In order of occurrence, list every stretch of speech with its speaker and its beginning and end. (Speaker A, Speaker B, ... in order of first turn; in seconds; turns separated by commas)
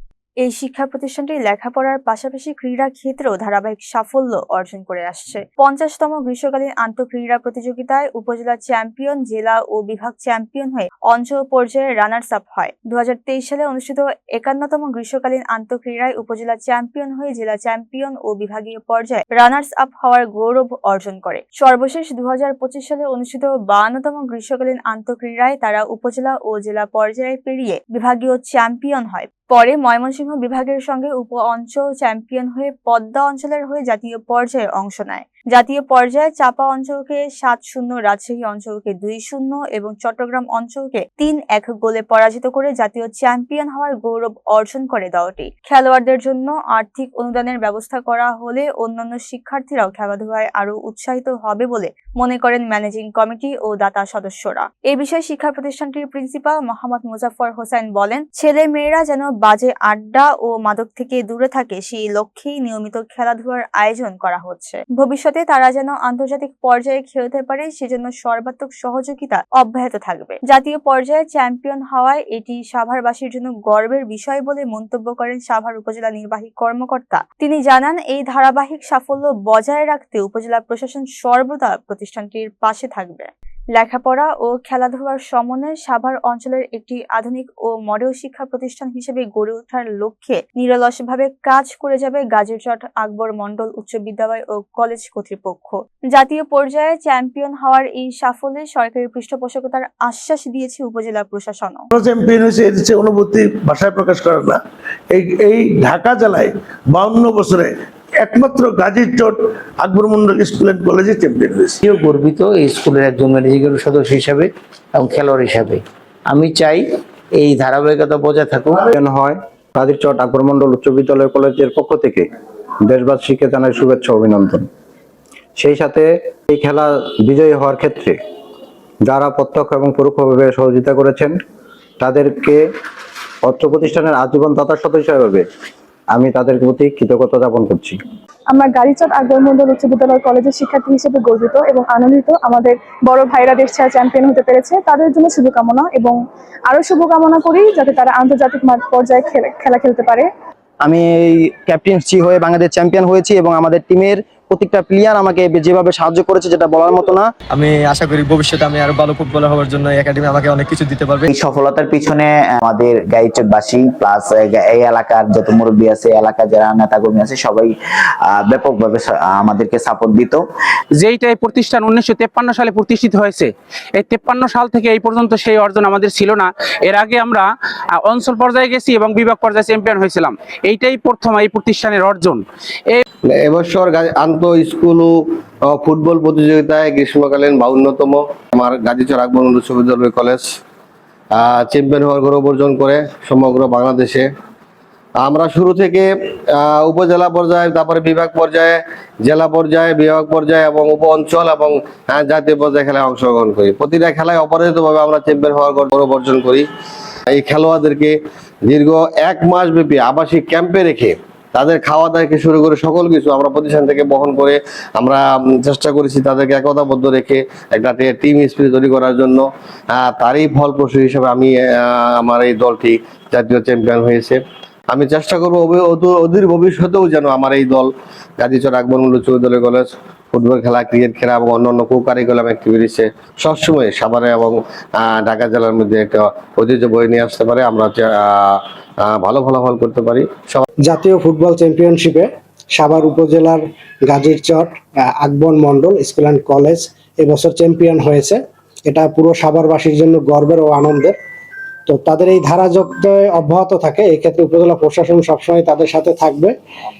Speaker A: 0.4-101.9, Speaker B: 101.9-104.6, Speaker B: 105.1-107.7, Speaker B: 108.2-111.8, Speaker C: 112.0-115.8, Speaker C: 116.3-116.8, Speaker C: 117.4-118.7, Speaker D: 118.9-122.3, Speaker D: 122.9-124.7, Speaker D: 125.6-128.2, Speaker D: 129.1-131.4, Speaker D: 132.0-132.6, Speaker D: 133.4-135.4, Speaker D: 136.1-138.0, Speaker E: 138.5-150.3, Speaker F: 150.8-157.3, Speaker G: 157.5-161.3, Speaker H: 161.3-167.7, Speaker H: 168.3-170.4, Speaker I: 171.0-183.0, Speaker J: 183.3-190.5, Speaker J: 191.3-194.3, Speaker J: 195.2-206.7, Speaker J: 207.3-240.6, Speaker K: 240.9-251.1, Speaker K: 251.9-256.5